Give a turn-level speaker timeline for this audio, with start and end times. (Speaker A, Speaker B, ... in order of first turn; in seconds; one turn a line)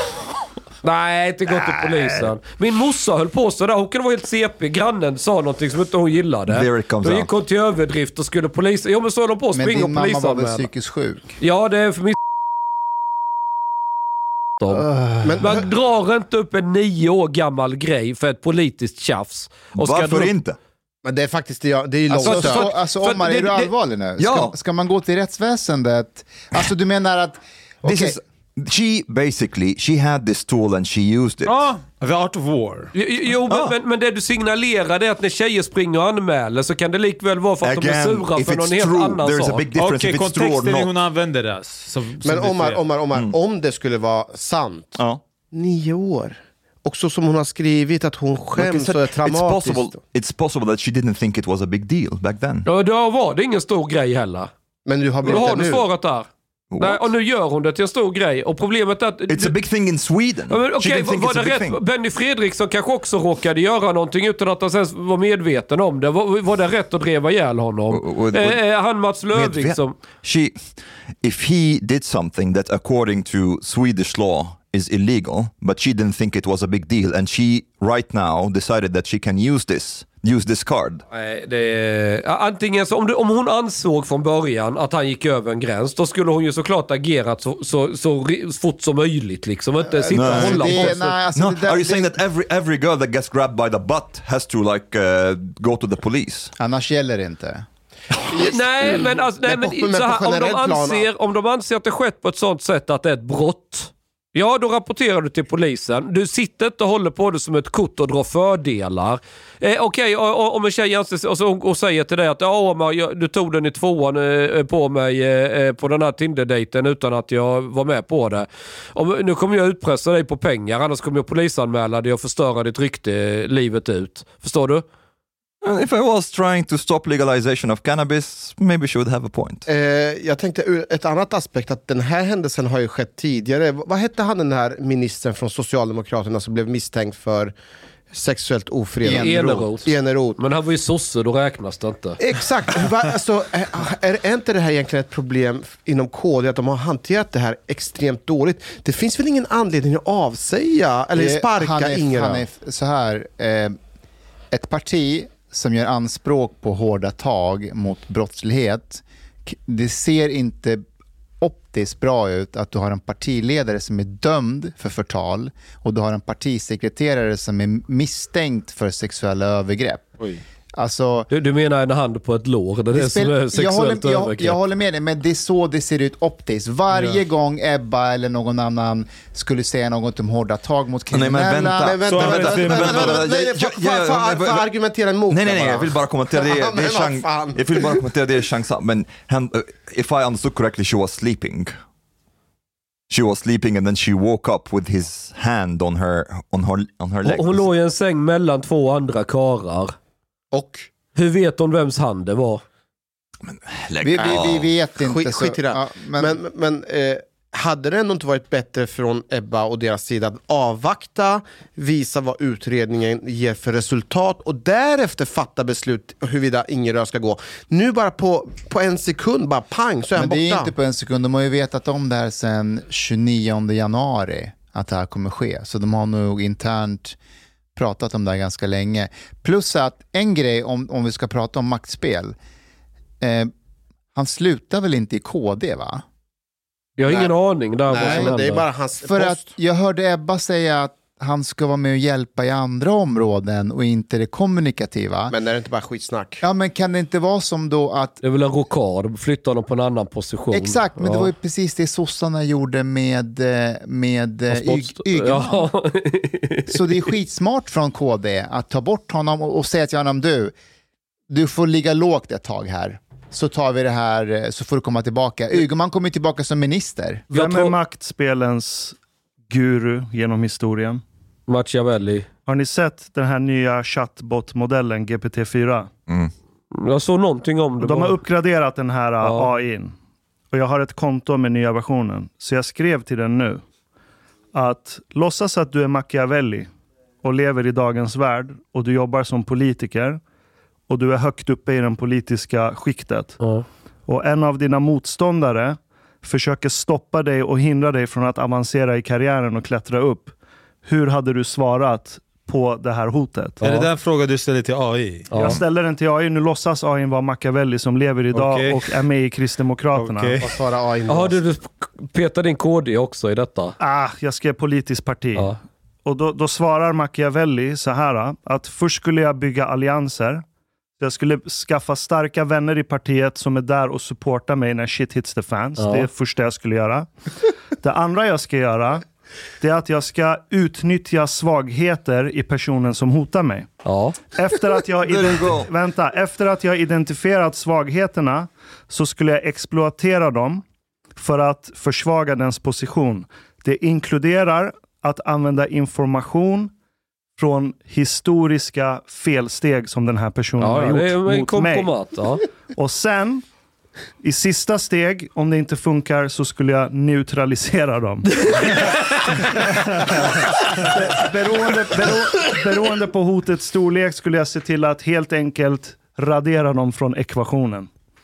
Speaker A: 0.8-10.7
Speaker B: 6.5-7.3
Speaker C: 9.5-11.3
Speaker A: 11.4-12.2
Speaker A: 14.6-14.8
Speaker C: 14.7-15.5
Speaker D: 15.2-15.7
Speaker A: 15.4-20.3
Speaker B: 19.7-20.6
Speaker D: 21.0-22.6
Speaker C: 22.1-28.2
Speaker A: 22.2-23.7
Speaker B: 24.2-24.5
Speaker B: 27.8-31.5
Speaker E: 31.4-32.9
Speaker A: 32.9-39.6
Speaker B: 33.5-33.7
Speaker B: 37.6-40.9
Speaker E: 39.8-42.8
Speaker D: 42.2-45.0
Speaker D: 45.5-50.0
Speaker B: 48.5-52.6
Speaker A: 52.6-54.5
Speaker D: 54.9-55.9
Speaker A: 55.2-56.3
Speaker B: 56.7-57.1
Speaker A: 56.8-59.5
Speaker B: 59.3-61.8
Speaker A: 60.5-70.0
Speaker B: 67.9-68.6
Speaker B: 69.3-70.6
Speaker B: 71.2-81.0
Speaker A: 81.1-91.2
Speaker C: 89.9-92.1
Speaker B: 90.1-96.5
Speaker C: 96.6-97.7
Speaker D: 98.3-101.1
Speaker A: 98.3-124.8
Speaker B: 125.6-129.6
Speaker D: 129.7-137.5
Speaker D: 138.1-140.4
Speaker C: 139.0-139.6
Speaker A: 139.1-142.2
Speaker D: 142.2-152.4
Speaker C: 151.1-153.8
Speaker C: 154.5-160.8
Speaker C: 161.4-170.1
Speaker C: 170.8-171.3
Speaker A: 171.3-174.6
Speaker C: 172.9-182.0
Speaker B: 181.1-184.7
Speaker D: 181.8-188.0
Speaker E: 182.1-183.2
Speaker C: 182.7-182.9
Speaker B: 185.3-191.7
Speaker B: 193.1-197.7
Speaker A: 197.2-199.9
Speaker D: 200.5-200.9
Speaker A: 201.1-202.6
Speaker B: 203.4-204.7
Speaker C: 204.0-206.4
Speaker D: 204.2-220.7
Speaker C: 220.2-227.2
Speaker C: 227.8-232.3
Speaker C: 233.2-233.5
Speaker C: 234.1-236.0
Speaker A: 237.0-238.6
Speaker D: 237.1-237.3
Speaker D: 237.9-239.5
Speaker C: 238.0-238.3
Speaker C: 239.0-245.3
Speaker D: 245.3-246.4
Speaker C: 246.4-248.2
Speaker A: 248.2-251.3
Speaker C: 250.5-255.7
Speaker A: 254.5-256.8
Speaker C: 256.7-260.5
Speaker C: 261.3-267.2
Speaker F: 267.3-268.9
Speaker A: 267.3-267.8
Speaker F: 269.5-271.0
Speaker A: 271.5-272.3
Speaker F: 272.4-275.9
Speaker A: 276.7-278.2
Speaker F: 277.8-279.9
Speaker A: 279.2-279.5
Speaker F: 280.5-283.6
Speaker F: 284.5-290.2
Speaker F: 290.9-293.4
Speaker A: 293.4-293.6
Speaker F: 294.1-303.9
Speaker E: 303.6-305.6
Speaker A: 305.3-305.6
Speaker F: 305.3-310.4
Speaker E: 308.3-309.0
Speaker E: 309.9-310.5
Speaker D: 310.4-311.4
Speaker A: 311.1-313.8
Speaker F: 313.8-320.4
Speaker F: 321.0-327.1
Speaker A: 325.8-326.1
Speaker F: 327.8-329.0
Speaker F: 329.6-333.7
Speaker A: 333.8-334.2
Speaker F: 334.3-340.6
Speaker B: 335.0-335.7
Speaker F: 341.1-346.7
Speaker F: 347.4-351.9
Speaker A: 350.6-352.4
Speaker F: 352.7-353.4
Speaker F: 354.2-358.9
Speaker F: 360.0-367.9